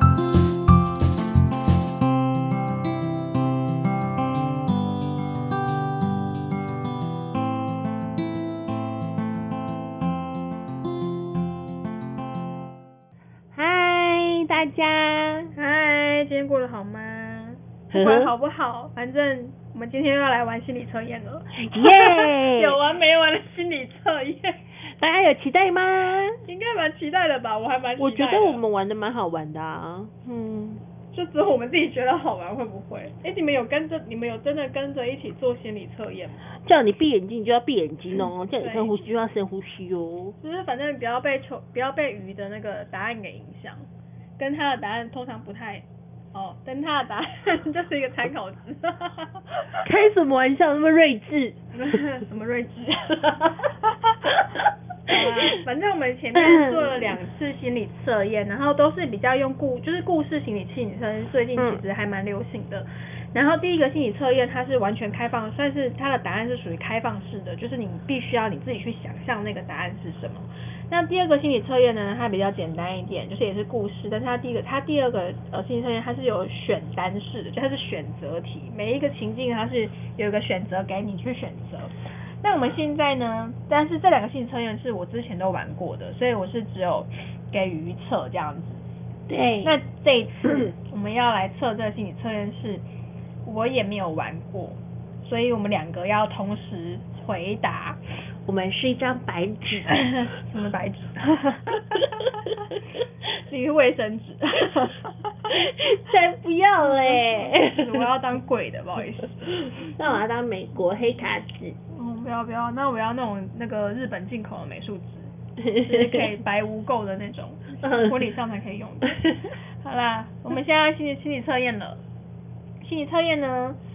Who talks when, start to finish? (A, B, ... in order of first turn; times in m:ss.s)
0:13.5-0:15.5 A
0:15.6-0:24.6 B
0:17.9-0:18.3 A
0:21.6-0:22.8 A
0:25.0-0:26.4 A
0:26.4-0:28.6 B
0:28.0-0:30.8 A
0:31.1-0:36.5 B
0:36.5-0:40.4 A
0:38.6-0:39.0 B
0:40.4-0:43.8 B
0:44.4-0:49.8 B
0:49.8-0:51.6 A
0:51.7-0:54.3 B
0:55.1-1:28.8 B
0:55.1-0:55.6 A
0:56.3-0:57.0 A
1:01.6-1:01.8 A
1:29.3-1:29.8 A
1:29.6-1:32.8 B
1:33.4-1:38.0 B
1:38.4-1:40.0 A
1:39.9-1:42.5 B
1:43.3-1:45.5 B
1:45.5-1:48.0 A
1:46.8-1:49.9 B
1:49.5-1:51.8 A
1:51.9-2:02.0 B
1:55.6-1:56.4 A
1:57.8-1:58.2 A
2:02.8-2:03.8 B